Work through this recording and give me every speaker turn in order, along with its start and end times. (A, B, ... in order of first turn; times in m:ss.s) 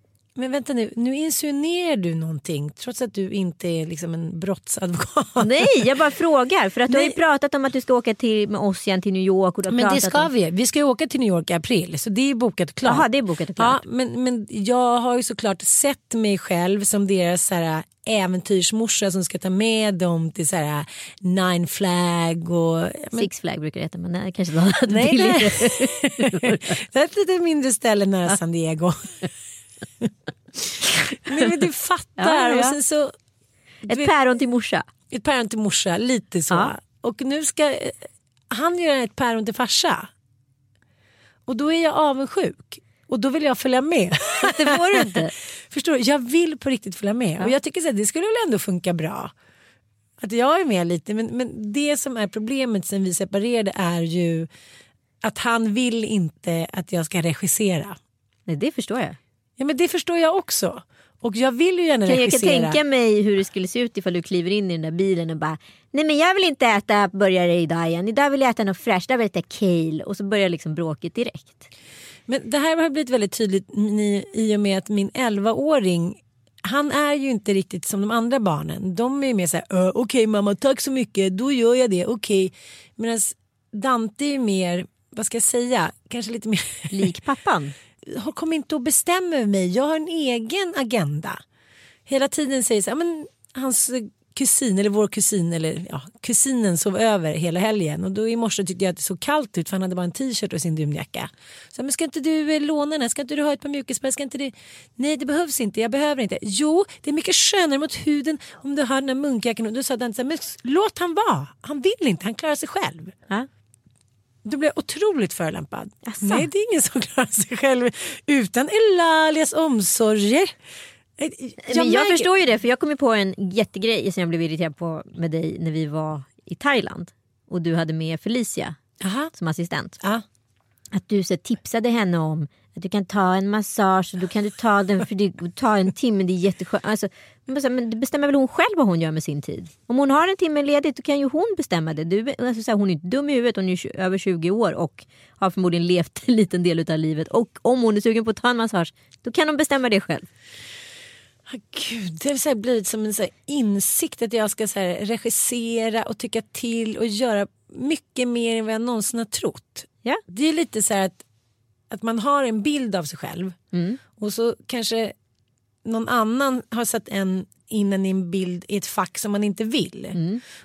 0:00.4-0:05.9 A
0:05.4-0:10.3 B
0:06.9-0:07.2 A
0:09.7-0:13.1 A
0:12.8-0:13.8 B
0:13.6-0:23.3 A
0:23.1-0:26.8 B
0:24.9-0:29.3 A
0:30.0-0:33.1 A
0:32.2-0:32.8 B
0:33.8-0:34.1 A
0:33.9-0:34.9 B
0:35.1-0:40.1 A
0:41.5-0:49.3 A
0:44.4-0:45.3 B
0:50.2-0:54.5 A
0:55.2-0:58.0 A
0:58.5-0:59.2 B
0:59.6-1:02.8 A
1:02.0-1:11.7 B
1:12.3-1:27.1 A
1:26.9-1:27.7 B
1:28.0-1:31.4 A
1:32.1-1:53.1 A
1:54.4-2:00.5 A
1:56.0-1:56.5 B
2:01.2-2:02.3 A
2:01.6-2:08.8 B
2:09.0-2:09.3 A
2:09.3-2:10.0 B
2:10.9-2:30.3 B
2:31.5-2:41.2 A
2:41.9-2:43.6 A
2:43.7-2:44.0 B
2:44.2-2:45.1 A
2:45.8-2:50.2 A
2:50.1-2:50.4 B